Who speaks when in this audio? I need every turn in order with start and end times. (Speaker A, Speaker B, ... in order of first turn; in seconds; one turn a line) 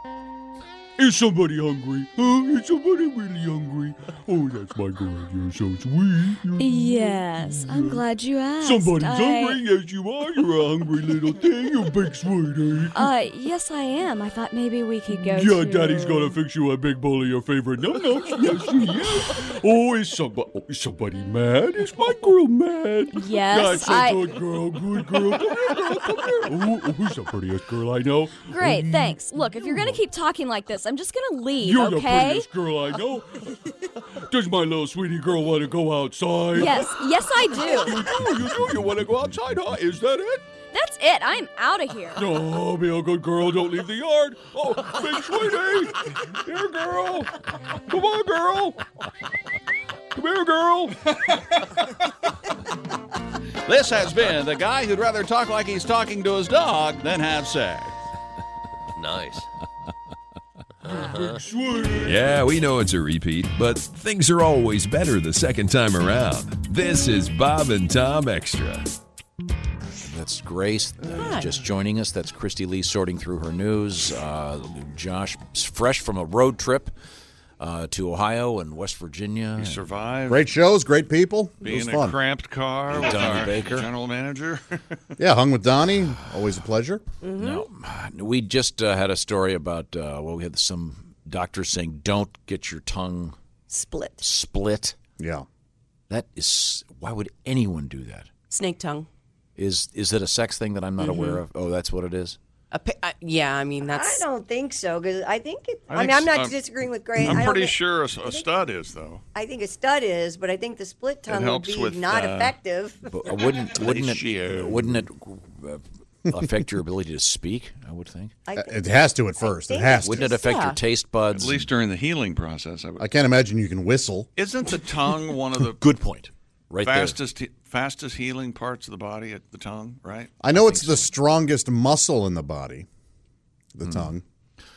Speaker A: 1.0-8.0
Speaker B: 6.6-9.6
Speaker A: 8.6-13.1
Speaker B: 13.0-16.4
Speaker A: 15.3-30.0
Speaker B: 23.1-24.2
Speaker B: 28.5-32.5
Speaker A: 31.6-33.8
Speaker A: 34.3-37.0
Speaker B: 36.6-38.0
Speaker A: 37.5-40.4
Speaker B: 40.7-42.2
Speaker A: 42.2-48.8
Speaker A: 50.1-51.0
Speaker C: 53.7-57.9
Speaker A: 60.9-62.4
Speaker D: 62.1-68.9
Speaker E: 70.0-76.9
Speaker F: 71.0-71.6
Speaker E: 77.6-79.8
Speaker C: 79.6-80.5
Speaker G: 80.3-82.2
Speaker C: 81.6-85.0
Speaker E: 82.9-83.9
Speaker G: 85.2-87.0
Speaker H: 87.2-87.7
Speaker E: 87.4-93.3
Speaker H: 93.7-94.3
Speaker E: 94.2-95.0
Speaker G: 95.2-95.5
Speaker E: 96.1-98.3
Speaker F: 98.5-99.1
Speaker E: 99.6-102.4
Speaker F: 101.0-101.4
Speaker F: 102.7-104.2
Speaker H: 103.8-108.5
Speaker C: 105.9-106.5
Speaker C: 107.2-109.2
Speaker H: 109.3-113.2
Speaker C: 111.3-112.5
Speaker E: 113.1-118.3
Speaker C: 113.7-115.0
Speaker H: 118.5-118.8
Speaker G: 118.6-120.3
Speaker H: 119.4-120.4
Speaker E: 120.0-121.7
Speaker F: 120.4-120.8
Speaker C: 121.3-123.1
Speaker G: 123.0-124.3
Speaker C: 124.4-125.8
Speaker E: 125.7-127.2
Speaker C: 126.8-130.3
Speaker G: 130.4-132.9
Speaker E: 130.5-131.1
Speaker G: 133.8-134.2